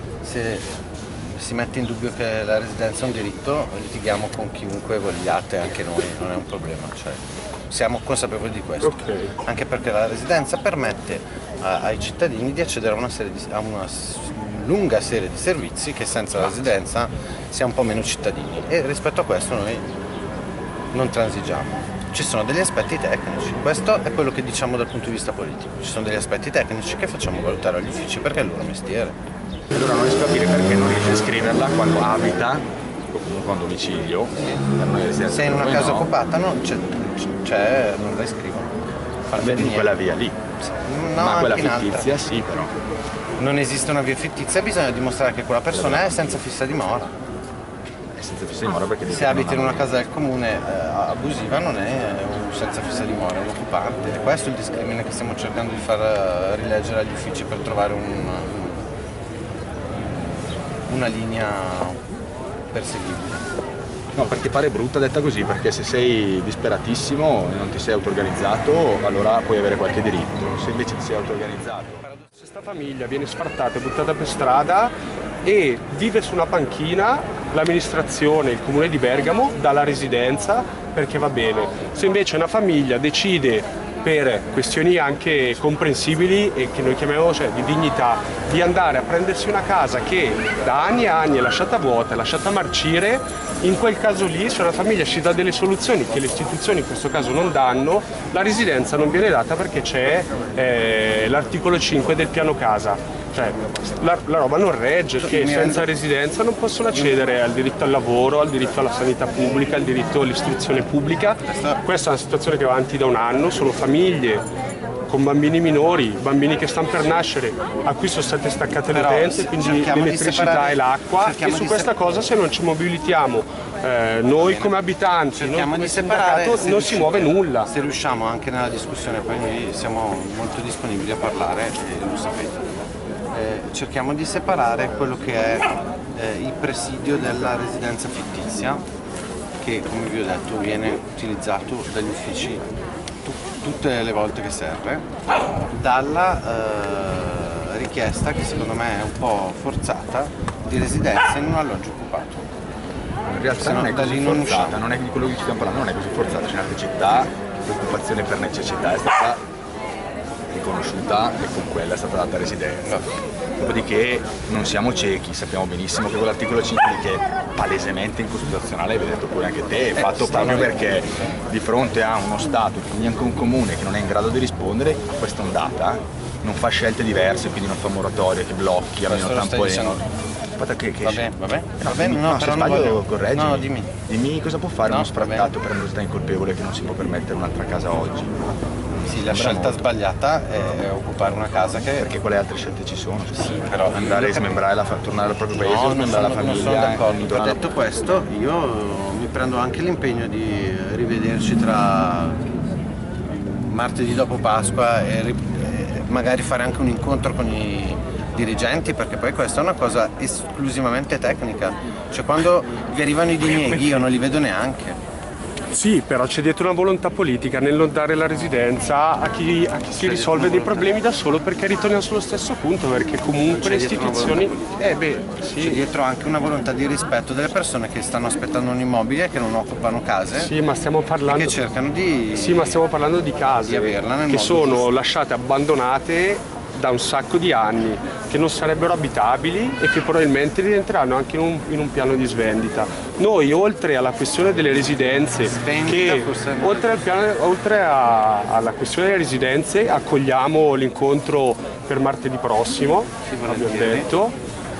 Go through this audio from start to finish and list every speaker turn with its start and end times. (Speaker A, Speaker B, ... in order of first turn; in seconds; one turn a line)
Speaker A: 0.2-19.9
Speaker B: 8.8-9.3
Speaker A: 20.9-29.1
Speaker C: 29.7-36.1
Speaker A: 34.4-34.6
Speaker A: 35.2-38.7
Speaker A: 39.3-40.0
Speaker C: 39.4-40.4
Speaker A: 40.6-42.2
Speaker C: 41.2-42.7
Speaker A: 43.4-47.1
Speaker C: 45.7-46.4
Speaker C: 48.1-50.0
Speaker A: 49.1-58.8
Speaker A: 59.9-62.0
Speaker A: 62.7-63.5
Speaker C: 64.1-72.0
Speaker B: 72.4-74.9
Speaker B: 75.4-114.4
Speaker A: 105.2-105.9
Speaker A: 111.4-111.8
Speaker B: 115.1-127.7
Speaker A: 118.9-121.9
Speaker A: 124.3-124.8
Speaker A: 125.3-132.6
Speaker A: 133.3-138.8
Speaker A: 139.6-142.7
Speaker A: 143.2-145.1
Speaker A: 145.7-152.5
Speaker C: 153.2-159.4
Speaker A: 153.6-154.8
Speaker C: 160.5-163.0
Speaker A: 162.8-163.2
Speaker C: 163.6-180.0
Speaker A: 170.0-170.9
Speaker A: 179.0-180.1
Speaker C: 180.6-181.3
Speaker A: 181.0-183.9
Speaker C: 181.8-188.3
Speaker A: 184.9-185.5
Speaker C: 189.0-189.8
Speaker A: 189.0-192.2
Speaker C: 192.0-197.6
Speaker A: 193.3-194.6
Speaker A: 195.6-202.4
Speaker A: 203.3-215.0
Speaker B: 213.5-214.1
Speaker B: 215.7-225.8
Speaker A: 219.9-220.9
Speaker A: 223.5-224.7
Speaker A: 225.6-230.5
Speaker B: 230.3-231.5
Speaker A: 231.2-232.8
Speaker B: 232.3-254.3
Speaker A: 233.5-234.9
Speaker A: 245.4-247.0
Speaker A: 253.2-254.1